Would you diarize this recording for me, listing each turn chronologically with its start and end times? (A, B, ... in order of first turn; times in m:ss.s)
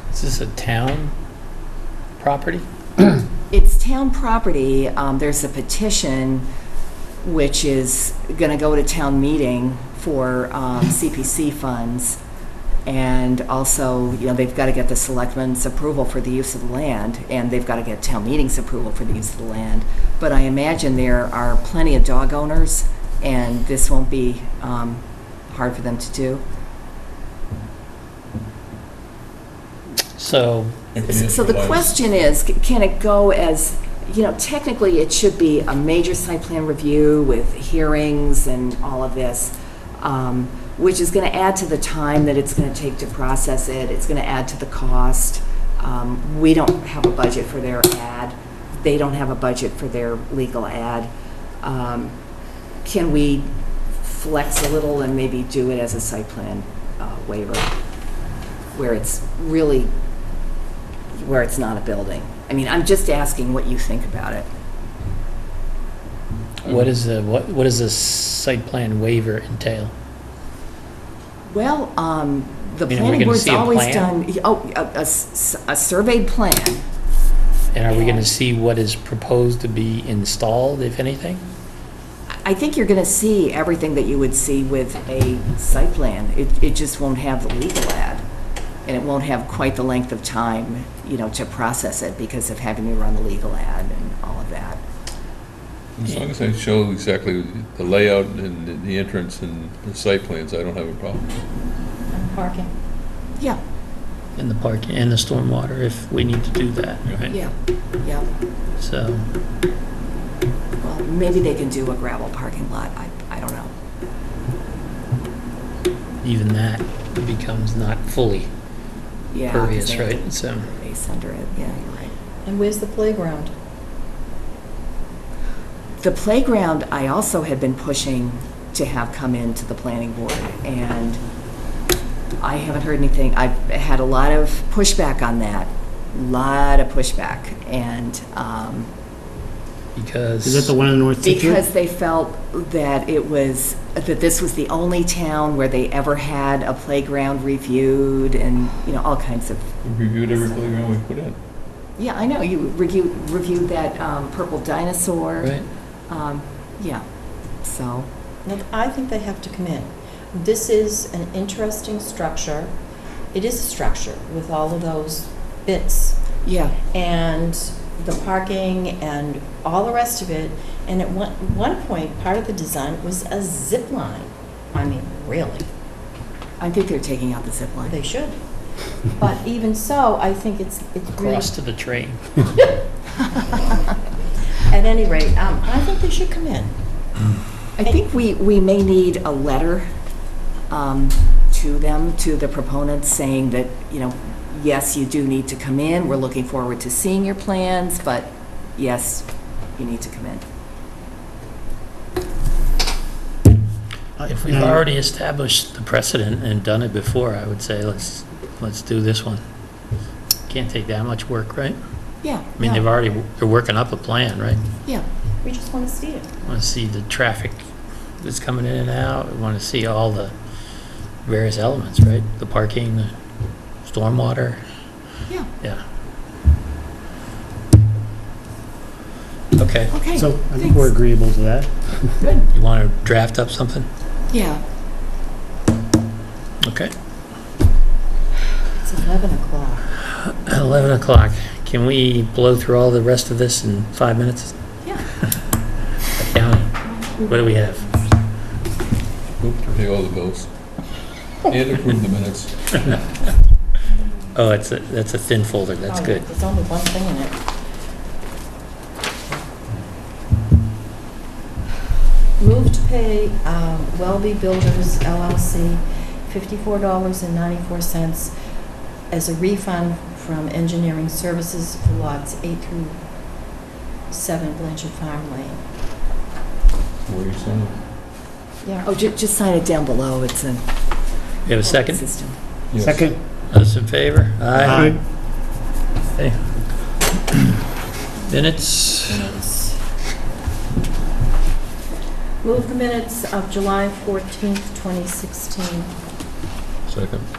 0:00.1-0:01.1 A
0:02.2-0:02.6 A
0:03.5-0:06.5 B
0:07.2-0:12.2 B
0:12.9-0:26.4 B
0:30.2-0:30.8 A
0:30.9-0:32.0 C
0:31.1-0:51.1 B
0:51.6-0:52.2 B
0:52.8-0:57.7 B
0:58.7-0:59.9 B
1:01.1-1:04.5 B
1:06.7-1:09.9 A
1:11.5-1:16.8 B
1:12.9-1:14.1 A
1:17.7-1:21.4 A
1:17.9-1:18.3 B
1:22.3-1:28.2 B
1:28.8-1:34.8 B
1:36.0-1:41.3 C
1:42.1-1:42.7 D
1:44.4-1:47.4 A
1:47.3-1:48.3 B
1:48.8-1:49.2 A
1:50.8-1:53.7 B
1:56.2-1:58.5 A
1:59.3-2:02.1 B
1:59.5-2:00.7 A
2:02.5-2:03.5 D
2:06.0-2:11.2 B
2:12.4-2:18.9 B
2:20.0-2:20.7 A
2:20.4-2:21.6 E
2:21.2-2:29.7 B
2:29.8-2:31.4 C
2:32.0-2:35.6 B
2:36.1-2:37.0 B
2:37.6-2:38.1 B
2:38.4-2:42.7 D
2:43.3-2:46.2 D
2:46.4-2:46.8 B
2:46.9-2:55.7 D
2:56.6-2:58.0 B
2:57.9-2:58.4 D
2:59.1-3:01.5 D
3:01.2-3:02.4 A
3:04.6-3:06.8 D
3:07.8-3:09.9 B
3:10.7-3:20.4 B
3:24.2-3:24.8 E
3:24.2-3:29.4 A
3:30.5-3:31.8 A
3:32.2-3:32.8 B
3:32.6-3:34.6 A
3:35.4-3:36.3 D
3:36.4-3:37.6 A
3:38.2-3:40.3 A
3:41.2-3:43.1 A
3:43.8-3:44.6 A
3:49.6-3:50.0 A
3:49.9-3:50.9 B
3:50.1-3:52.3 E
3:52.2-3:52.5 B
3:52.5-3:53.9 A
3:54.3-3:54.6 B
3:56.6-3:56.9 A
3:58.8-3:59.9 D
4:00.2-4:04.5 A
4:06.2-4:07.9 A
4:09.4-4:10.5 C
4:11.4-4:13.0 C
4:14.3-4:16.2 A
4:15.9-4:17.4 D
4:22.4-4:28.3 D
4:29.1-4:33.0 D
4:34.1-4:35.6 D
4:37.1-4:37.8 C
4:38.8-4:40.6 B
4:41.5-4:42.0 A
4:41.6-4:42.4 B
4:42.7-4:43.1 C
4:42.8-4:43.2 E
4:43.5-4:45.0 A
4:44.6-4:45.0 E
4:48.3-4:49.3 A
4:49.1-4:49.8 D
4:52.4-4:55.9 D
4:56.9-4:57.3 C